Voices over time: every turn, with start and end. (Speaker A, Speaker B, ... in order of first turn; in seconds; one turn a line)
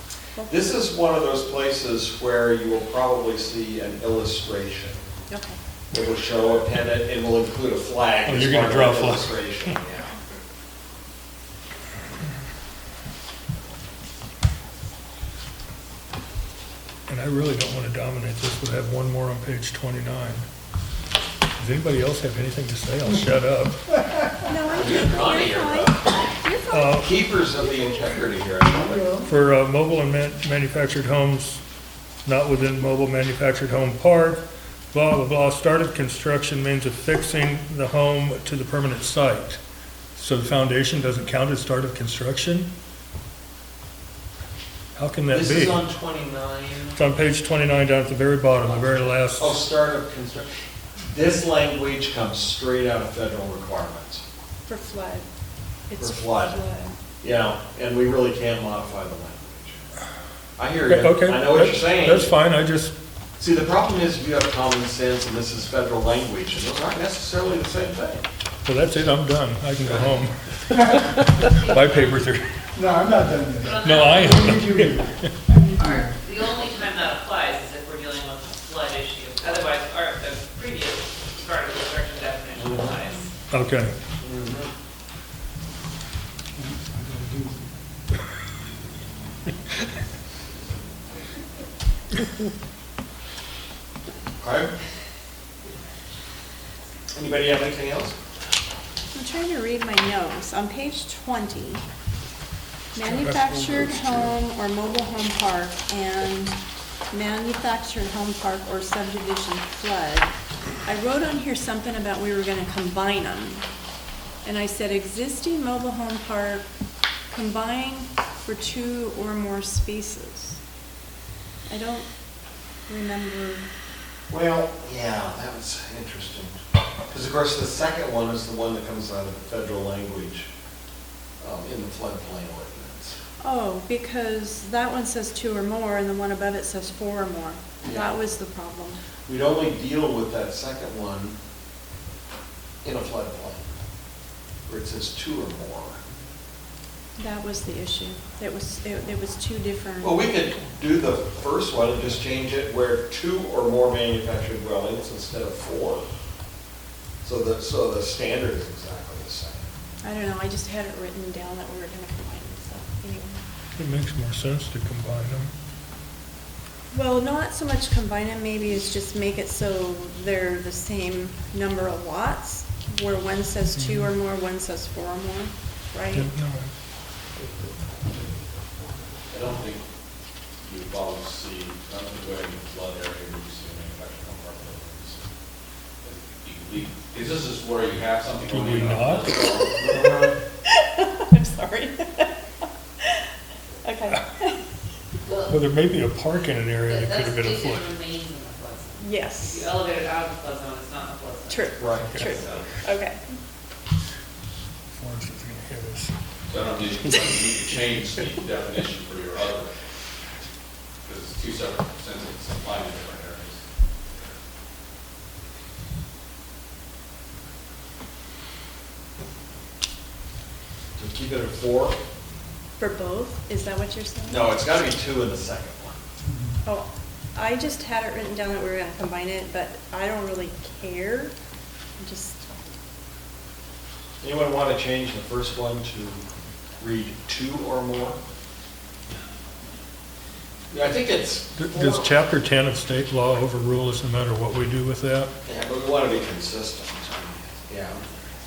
Speaker A: 0.5-5.0
Speaker B: 5.3-5.6
Speaker A: 5.9-10.1
Speaker C: 8.3-9.5
Speaker C: 17.1-20.4
Speaker C: 21.6-23.8
Speaker B: 24.4-27.1
Speaker A: 24.7-26.2
Speaker C: 26.7-27.1
Speaker A: 27.0-29.2
Speaker C: 29.2-31.6
Speaker C: 32.2-39.6
Speaker C: 40.1-42.7
Speaker C: 44.9-45.8
Speaker A: 45.3-47.0
Speaker C: 46.9-49.6
Speaker A: 48.7-50.5
Speaker A: 51.0-54.2
Speaker B: 54.7-55.2
Speaker B: 55.9-57.0
Speaker A: 56.0-56.6
Speaker A: 57.2-59.8
Speaker A: 60.6-62.3
Speaker C: 60.9-62.9
Speaker A: 63.4-68.2
Speaker C: 68.6-72.7
Speaker D: 72.7-75.7
Speaker E: 73.5-74.6
Speaker C: 73.8-75.3
Speaker E: 75.7-83.3
Speaker C: 83.5-84.0
Speaker A: 84.2-84.7
Speaker D: 86.6-87.7
Speaker A: 94.4-94.7
Speaker A: 97.1-98.2
Speaker B: 99.1-101.8
Speaker B: 102.9-106.6
Speaker C: 103.0-104.2
Speaker B: 107.1-110.3
Speaker B: 110.8-113.7
Speaker B: 114.4-116.6
Speaker B: 117.3-120.6
Speaker B: 121.7-122.1
Speaker B: 122.9-123.7
Speaker A: 124.3-126.6
Speaker A: 127.1-130.5
Speaker A: 131.4-133.1
Speaker B: 133.4-139.0
Speaker A: 137.8-138.1
Speaker A: 139.3-141.4
Speaker A: 142.8-143.7
Speaker A: 144.7-146.0
Speaker B: 147.2-150.3
Speaker A: 150.0-156.1
Speaker A: 157.2-159.7
Speaker B: 160.0-163.4
Speaker C: 163.8-165.5
Speaker B: 166.9-176.3
Speaker C: 173.8-174.1
Speaker C: 176.1-176.7
Speaker F: 179.3-179.8
Speaker F: 180.6-185.2
Speaker F: 186.0-190.0
Speaker C: 188.5-189.4
Speaker A: 189.8-190.3
Speaker B: 190.7-192.3
Speaker B: 193.8-194.6
Speaker E: 195.2-195.6
Speaker C: 195.5-197.9
Speaker E: 196.8-202.7
Speaker B: 199.0-199.7
Speaker B: 201.5-203.2
Speaker A: 201.8-202.1
Speaker C: 202.0-202.4
Speaker C: 204.9-206.1
Speaker F: 206.5-209.7
Speaker F: 211.1-213.6
Speaker A: 220.9-222.0
Speaker B: 222.8-224.5
Speaker A: 224.3-226.0
Speaker B: 226.6-231.3
Speaker B: 232.0-232.5
Speaker A: 234.2-236.2
Speaker A: 236.8-238.2
Speaker A: 240.7-242.1
Speaker C: 241.6-245.3
Speaker A: 245.4-248.2